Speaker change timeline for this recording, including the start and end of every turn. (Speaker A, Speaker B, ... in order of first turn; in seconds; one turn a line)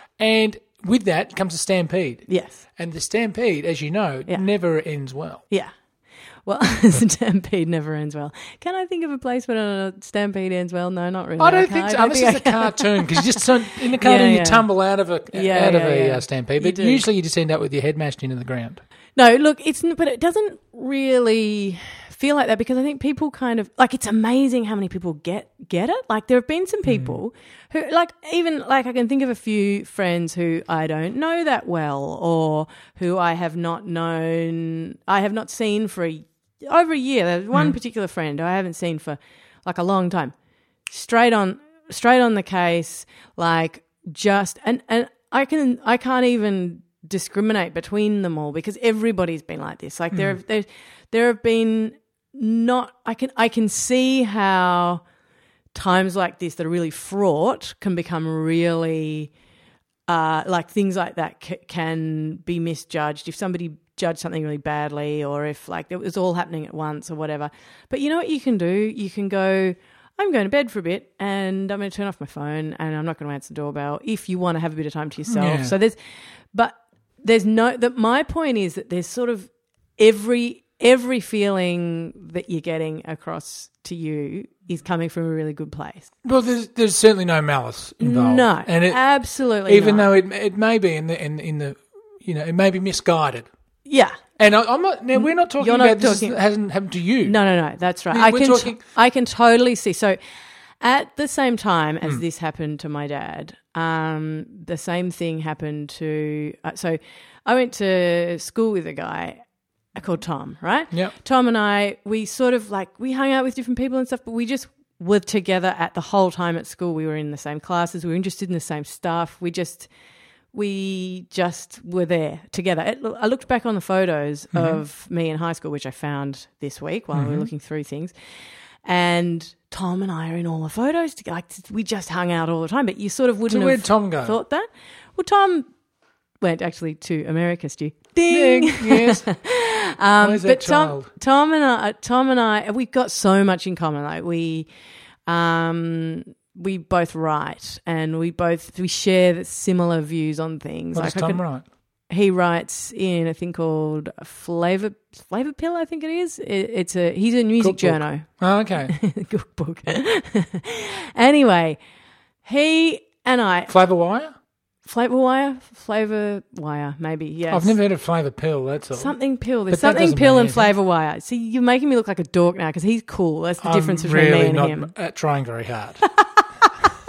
Speaker A: 0.2-2.2
Speaker B: 2.3-2.6
Speaker A: 2.8-5.4
Speaker B: 6.5-14.7
Speaker A: 11.4-18.8
Speaker B: 15.3-17.0
Speaker B: 19.2-40.3
Speaker A: 26.9-27.2
Speaker B: 40.9-55.0
Speaker A: 50.1-50.4
Speaker B: 55.7-59.3
Speaker B: 60.1-76.0
Speaker A: 75.3-75.7
Speaker B: 76.5-86.1
Speaker A: 86.2-89.0
Speaker B: 88.0-90.1
Speaker A: 89.7-93.5
Speaker B: 93.8-94.2
Speaker A: 94.4-97.3
Speaker B: 95.2-96.3
Speaker B: 97.2-100.2
Speaker A: 98.1-98.8
Speaker B: 100.8-109.4
Speaker B: 110.0-119.9
Speaker B: 120.5-128.1
Speaker A: 124.5-124.8
Speaker A: 127.1-127.5
Speaker B: 128.8-135.7
Speaker A: 133.5-134.3
Speaker B: 136.4-144.7
Speaker A: 138.3-139.3
Speaker A: 140.2-141.1
Speaker B: 145.3-151.4
Speaker A: 150.9-151.6
Speaker B: 152.1-158.3
Speaker A: 157.6-158.9
Speaker B: 158.8-161.8
Speaker B: 162.4-163.7
Speaker A: 163.7-164.3
Speaker B: 164.8-167.8
Speaker A: 167.5-169.1
Speaker B: 168.9-174.9
Speaker A: 169.7-170.7
Speaker A: 173.6-176.0
Speaker B: 176.0-176.7